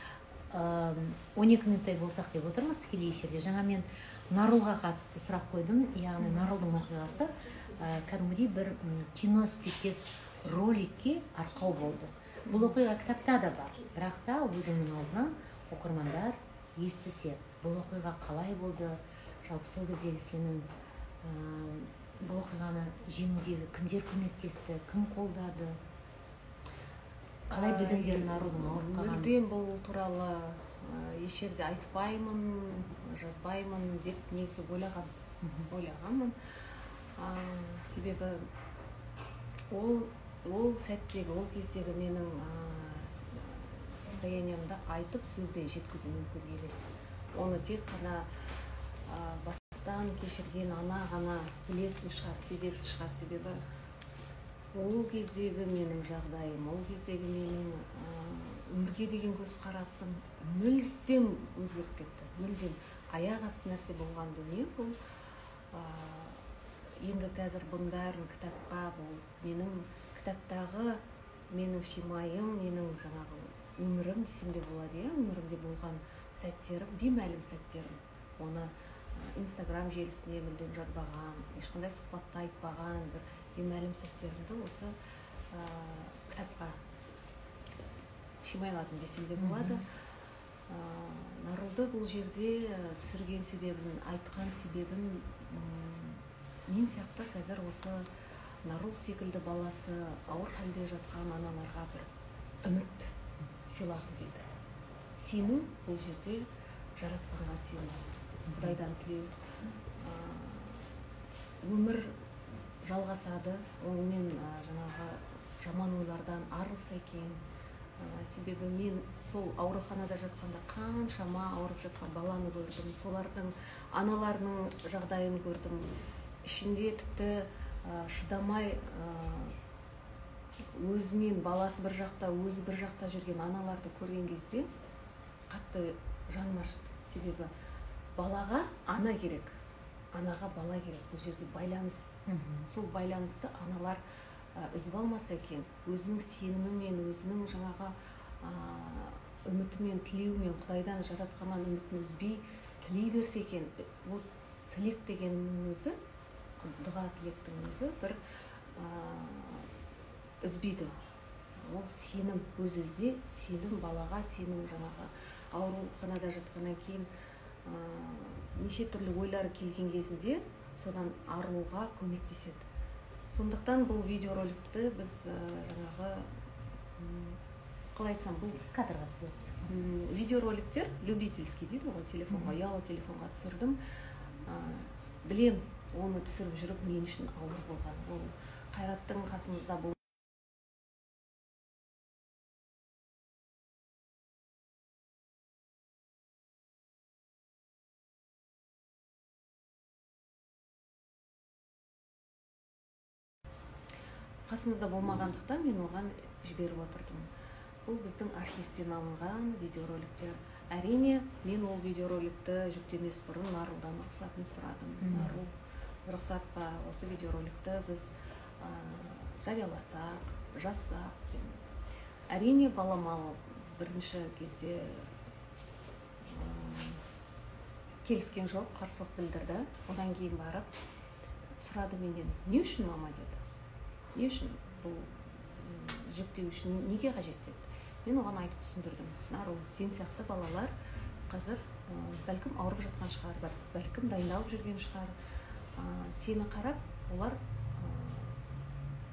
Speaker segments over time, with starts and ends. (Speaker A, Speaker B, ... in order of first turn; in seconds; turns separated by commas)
Speaker A: 0.5-20.7, Speaker B: 12.5-12.8, Speaker A: 21.2-25.8, Speaker A: 27.5-29.4, Speaker B: 27.5-35.1, Speaker A: 35.4-35.7, Speaker B: 35.7-36.4, Speaker B: 37.2-38.5, Speaker B: 39.7-48.3, Speaker B: 49.1-53.6, Speaker B: 54.7-64.9, Speaker B: 65.7-66.5, Speaker B: 67.0-71.0, Speaker B: 71.5-84.9, Speaker B: 85.5-86.8, Speaker B: 88.4-89.8, Speaker A: 89.4-89.8, Speaker B: 90.7-98.0, Speaker B: 98.6-102.1, Speaker B: 102.6-103.1, Speaker B: 103.7-104.5, Speaker B: 105.2-106.4, Speaker B: 107.0-109.4, Speaker A: 108.5-108.8, Speaker B: 110.0-110.9, Speaker B: 111.6-112.2, Speaker B: 112.8-117.4, Speaker B: 118.0-125.9, Speaker B: 126.5-129.6, Speaker B: 130.8-134.7, Speaker B: 135.5-137.5, Speaker B: 138.2-139.5, Speaker B: 140.1-142.1, Speaker A: 142.3-142.7, Speaker B: 142.7-144.0, Speaker B: 144.6-156.0, Speaker B: 156.6-158.2, Speaker B: 158.8-159.7, Speaker B: 160.4-160.9, Speaker B: 161.6-167.1, Speaker B: 167.7-172.7, Speaker B: 173.3-176.3, Speaker B: 177.0-177.4, Speaker B: 177.9-178.6, Speaker A: 178.5-179.6, Speaker B: 179.7-183.8, Speaker A: 182.3-182.6, Speaker B: 184.5-190.0, Speaker B: 204.5-207.3, Speaker B: 207.9-215.5, Speaker A: 215.0-215.4, Speaker B: 216.1-221.6, Speaker B: 222.3-225.1, Speaker B: 226.2-227.0, Speaker B: 228.0-230.7, Speaker B: 231.6-233.4, Speaker B: 234.2-240.7, Speaker B: 241.3-245.1, Speaker B: 245.8-248.4